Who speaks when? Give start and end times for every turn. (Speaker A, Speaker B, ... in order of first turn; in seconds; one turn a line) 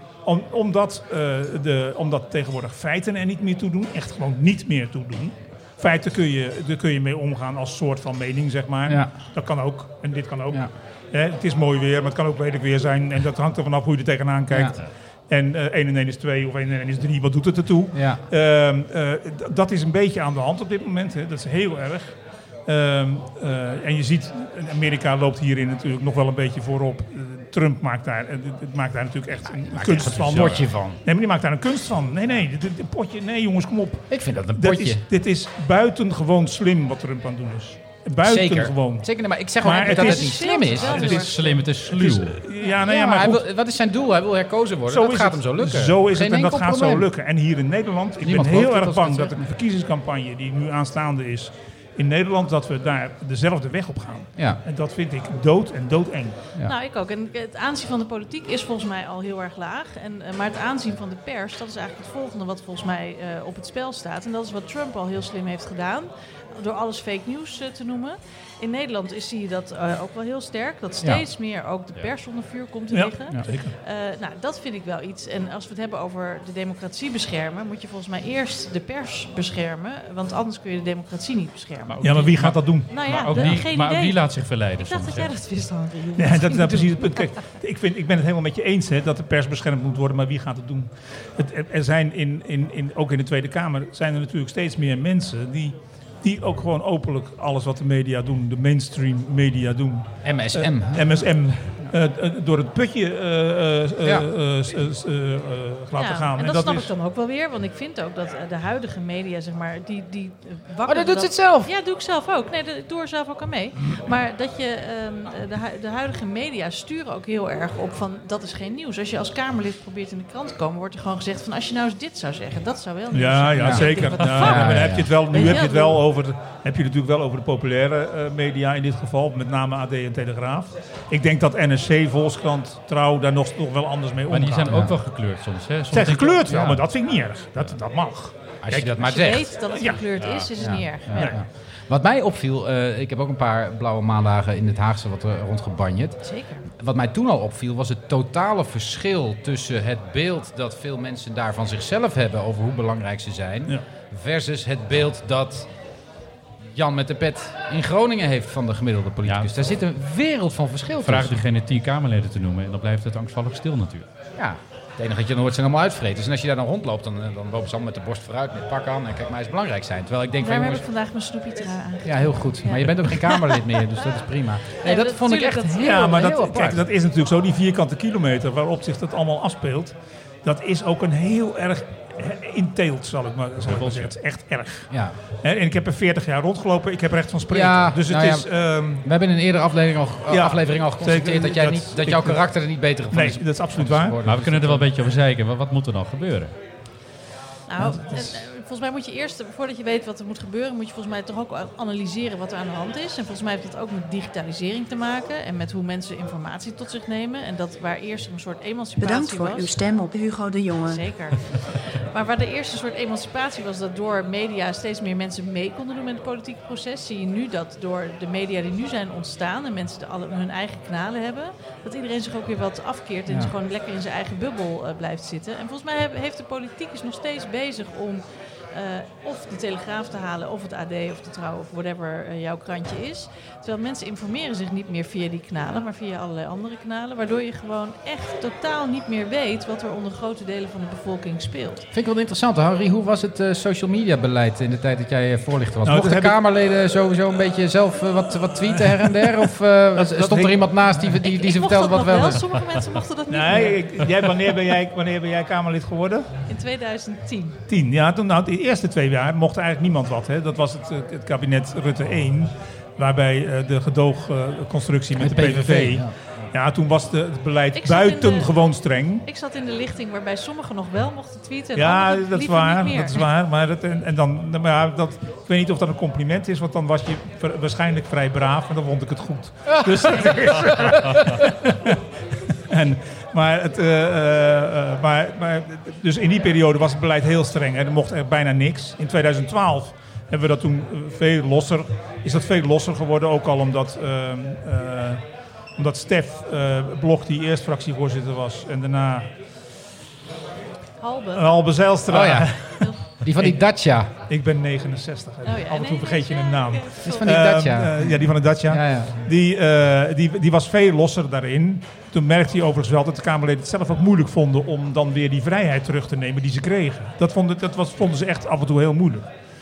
Speaker A: 0.2-39.1
Speaker B: 8.9-9.1
Speaker B: 14.5-14.8
Speaker B: 17.9-18.2
Speaker B: 29.3-31.0
Speaker C: 30.2-30.7
Speaker B: 34.1-35.0
Speaker B: 38.2-41.2
Speaker A: 39.6-41.3
Speaker D: 39.7-41.6
Speaker C: 40.8-42.4
Speaker A: 41.8-43.4
Speaker B: 42.8-47.1
Speaker A: 44.9-56.4
Speaker B: 48.2-49.4
Speaker D: 56.6-82.0
Speaker A: 72.9-73.7
Speaker C: 81.9-85.3
Speaker A: 82.0-83.6
Speaker D: 82.9-84.2
Speaker D: 84.8-87.3
Speaker A: 86.2-106.9
Speaker B: 100.2-101.2
Speaker D: 106.0-126.0
Speaker B: 110.8-111.7
Speaker A: 123.1-134.8
Speaker B: 123.6-125.1
Speaker C: 134.3-136.8
Speaker B: 134.7-134.9
Speaker A: 135.9-139.0
Speaker B: 136.5-136.8
Speaker B: 138.6-139.5
Speaker D: 139.0-141.4
Speaker A: 139.7-140.0
Speaker C: 140.2-140.5
Speaker B: 140.6-146.2
Speaker D: 146.2-146.7
Speaker B: 146.7-155.7
Speaker B: 156.6-161.4
Speaker C: 159.2-159.5
Speaker C: 161.0-164.1
Speaker B: 164.4-170.8
Speaker D: 170.4-174.0
Speaker B: 172.0-176.8
Speaker D: 174.8-176.2
Speaker A: 175.8-184.9
Speaker C: 183.6-184.1
Speaker A: 185.4-189.0
Speaker B: 187.5-188.5
Speaker B: 189.0-194.8
Speaker A: 190.3-192.4
Speaker A: 193.1-194.2
Speaker C: 194.2-196.5
Speaker D: 197.7-209.7
Speaker A: 197.8-198.3
Speaker E: 209.0-211.1
Speaker D: 210.8-241.8
Speaker B: 241.9-252.4
Speaker A: 245.8-246.3
Speaker A: 249.9-251.1
Speaker D: 251.2-253.8
Speaker A: 253.3-256.3
Speaker D: 256.5-257.6
Speaker A: 257.7-269.2
Speaker B: 265.2-266.1
Speaker D: 267.7-268.5
Speaker D: 269.2-273.2
Speaker A: 271.8-282.0
Speaker B: 279.7-281.2
Speaker A: 282.7-295.2
Speaker A: 295.8-299.3
Speaker D: 301.0-301.7
Speaker A: 301.3-303.6
Speaker B: 302.1-302.6
Speaker B: 303.2-304.1
Speaker A: 304.3-319.3
Speaker D: 305.4-307.4
Speaker B: 307.0-309.2